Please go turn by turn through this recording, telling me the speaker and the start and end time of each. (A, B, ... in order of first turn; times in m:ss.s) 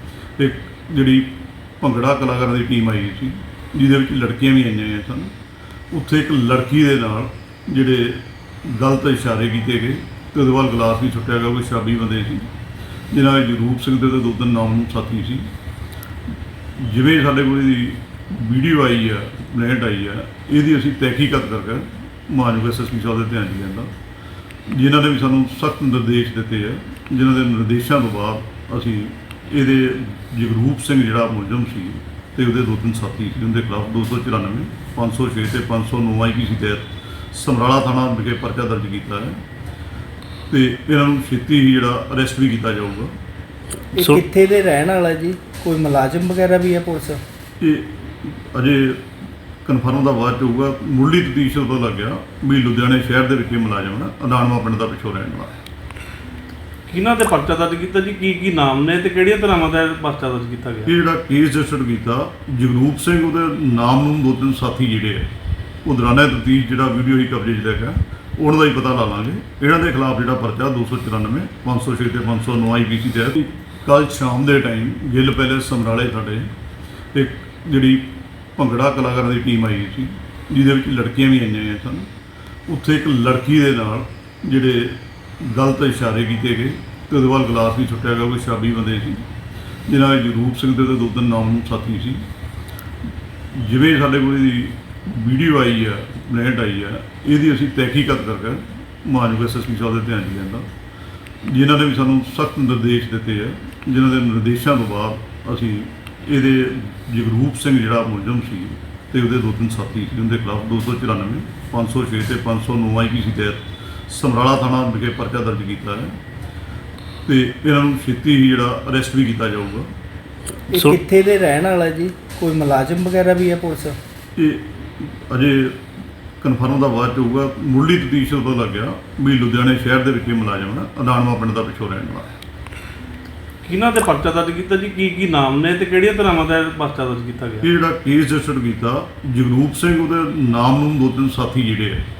0:00.4-0:05.3 A
0:05.9-0:12.5 A
0:13.1-0:15.5 A
0:16.8-0:23.9 A
0:24.7-0:39.4 A
0:40.5-0:43.2 A
0:44.0-0:47.2 B
0:47.6-0:49.1 A
0:49.6-0:55.5 A
0:56.9-1:00.9 C
1:00.9-1:05.3 A
1:05.8-1:16.5 A
1:17.1-1:22.1 A
1:22.7-1:29.3 A
1:29.9-1:32.3 A
1:33.5-1:40.7 A
1:41.4-1:56.2 A
1:57.3-1:59.9 A
2:00.7-2:04.0 B
2:04.4-2:05.9 A
2:06.4-2:12.3 A
2:13.6-2:17.7 C
2:17.6-2:22.0 A